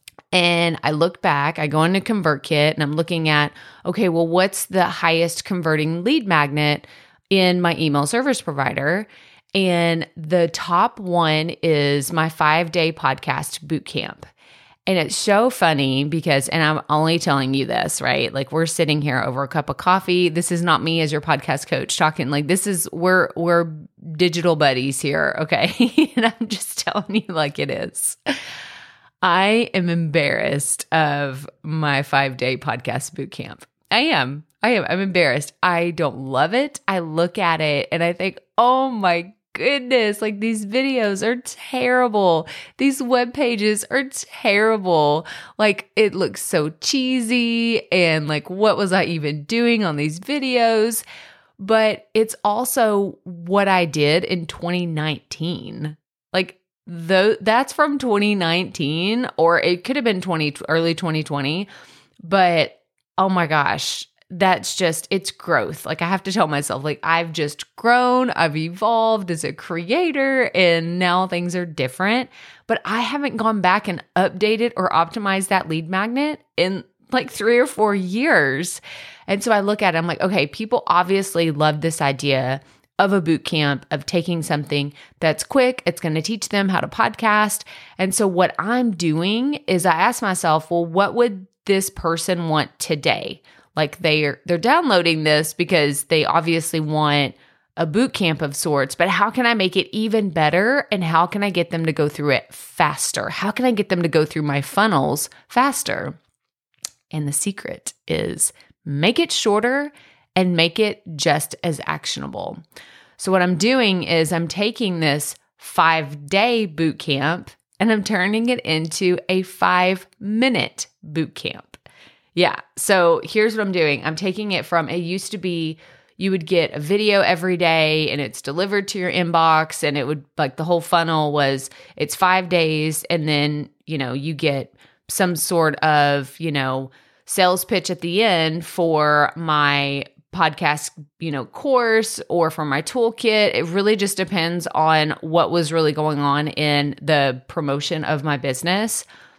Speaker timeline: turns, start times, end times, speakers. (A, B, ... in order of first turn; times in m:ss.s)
0:00.3-0:14.3 A
0:14.9-0:28.2 A
0:29.2-0:51.0 A
0:51.6-1:01.7 A
1:02.3-1:46.2 A
1:47.1-1:52.6 A
1:53.2-2:01.8 A
2:02.4-2:29.1 A